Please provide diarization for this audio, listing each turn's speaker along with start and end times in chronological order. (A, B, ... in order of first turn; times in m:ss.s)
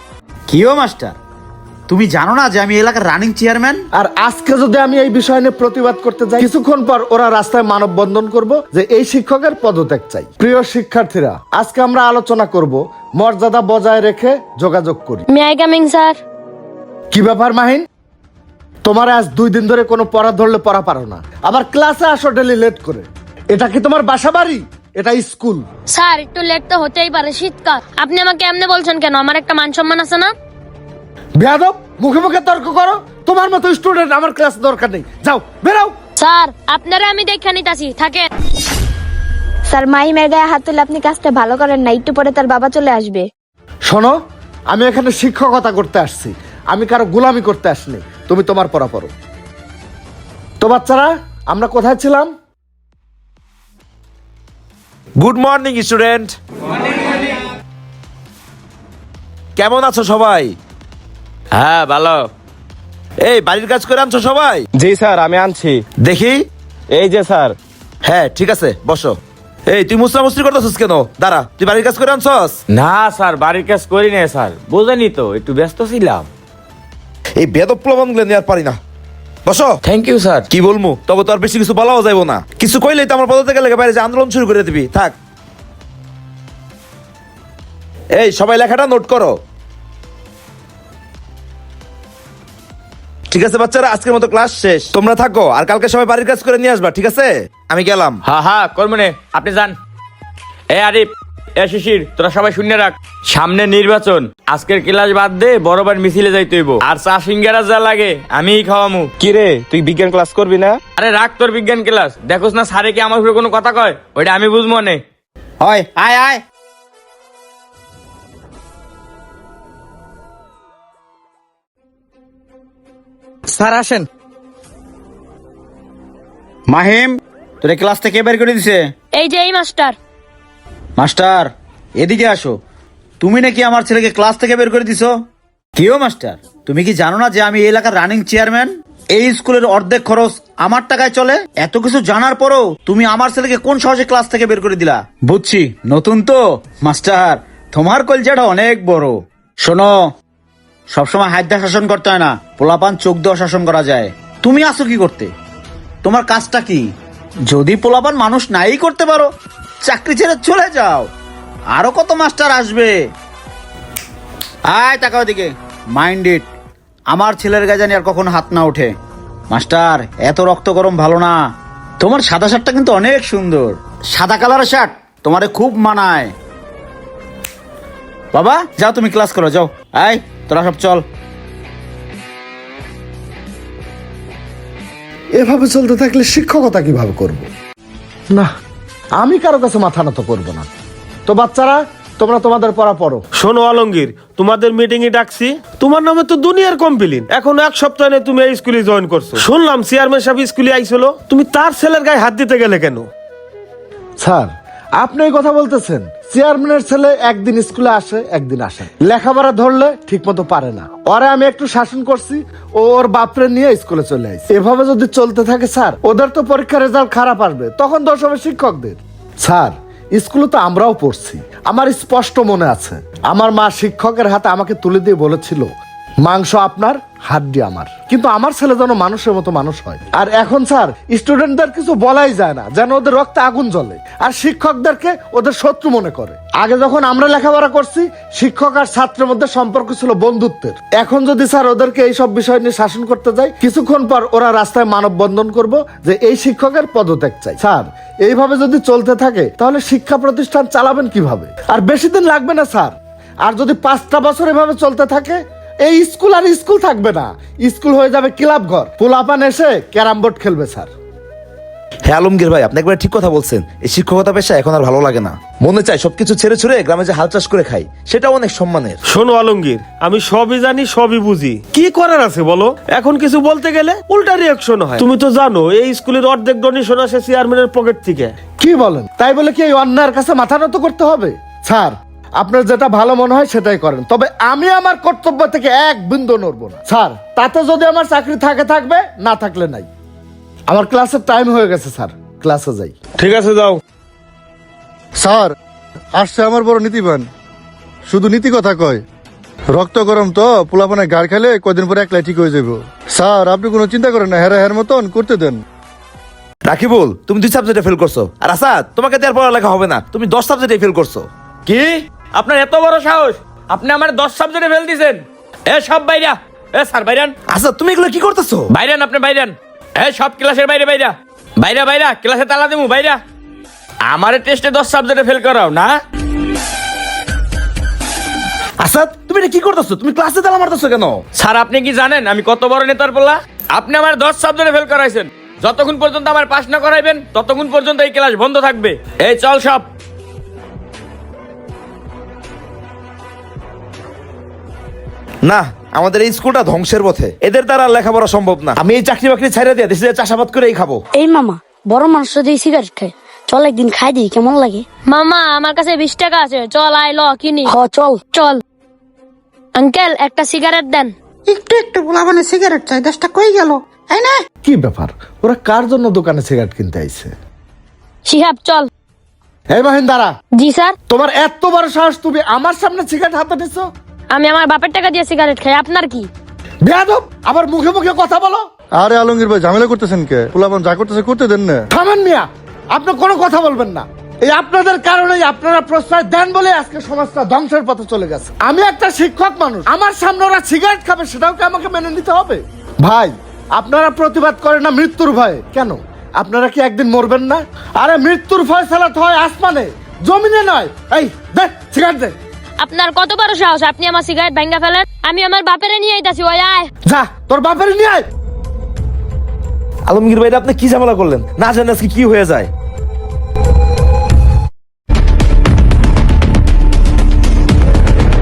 0:00.5-0:01.1 A
0:01.9-0:03.8 A
0:03.9-0:15.2 B
0:15.3-0:16.2 C
0:17.1-0:17.8 B
0:18.8-0:25.6 B
0:25.9-0:30.3 C
0:31.4-0:35.9 B
0:36.2-0:38.3 C
0:39.7-0:43.2 D
0:43.9-0:44.2 B
0:44.7-0:49.1 B
0:50.6-0:52.3 B
0:55.2-0:56.3 E
0:59.6-1:00.6 E
1:01.5-1:02.3 F
1:03.2-1:04.6 E
1:04.8-1:05.8 G
1:06.0-1:06.4 E
1:06.9-1:07.6 G
1:08.0-1:09.2 E
1:09.7-1:12.6 E
1:12.7-1:16.3 F
1:17.4-1:18.8 E
1:19.4-1:19.7 E
1:19.8-1:20.4 F
1:20.5-1:25.1 E
1:28.1-1:29.4 E
1:33.3-1:38.2 E
1:38.2-1:39.7 F
1:40.7-1:49.1 F
1:49.2-1:50.8 G
1:51.0-1:55.0 F
1:55.6-1:56.4 A
2:06.7-2:08.8 A
2:09.1-2:09.9 C
2:11.0-2:12.6 A
2:13.2-2:15.1 A
2:15.8-2:29.9 A
2:30.9-2:35.3 A
2:36.0-2:36.8 A
2:37.5-2:39.3 A
2:39.8-2:41.1 A
2:41.7-2:42.9 A
2:44.7-2:46.5 A
2:47.1-2:48.9 A
2:49.5-2:51.4 A
2:52.0-2:56.3 A
2:58.3-3:01.0 A
3:05.3-3:07.5 B
3:09.2-3:10.7 B
3:11.3-3:13.2 B
3:13.4-3:23.0 H
3:24.2-3:45.7 B
3:46.2-4:20.9 B
4:22.0-4:29.0 E
4:29.0-4:38.3 H
4:38.6-4:49.9 B
4:50.7-4:52.9 B
4:53.2-4:53.8 H
4:55.2-4:55.5 I
4:56.1-4:57.3 I
4:58.1-4:59.0 I
4:59.7-5:05.6 I
5:06.7-5:11.3 E
5:11.7-5:17.3 F
5:17.5-5:18.7 E
5:18.7-5:23.2 F
5:24.1-5:26.0 F
5:28.8-5:31.2 E
5:31.4-5:39.9 F
5:45.4-5:51.0 E
5:51.1-5:54.8 J
5:55.0-5:57.7 C
5:57.6-5:58.2 J
5:58.3-5:58.6 C
5:59.8-6:01.1 C
6:01.5-6:04.3 K
6:04.6-6:07.3 B
6:08.2-6:08.9 C
6:09.7-6:10.3 B
6:10.6-6:11.0 C
6:11.1-6:13.9 B
6:14.3-6:16.3 C
6:16.8-6:18.6 B
6:19.0-6:21.9 I
6:21.9-6:42.4 B
6:42.8-6:46.9 C
6:47.0-6:48.3 B
6:50.1-6:52.7 E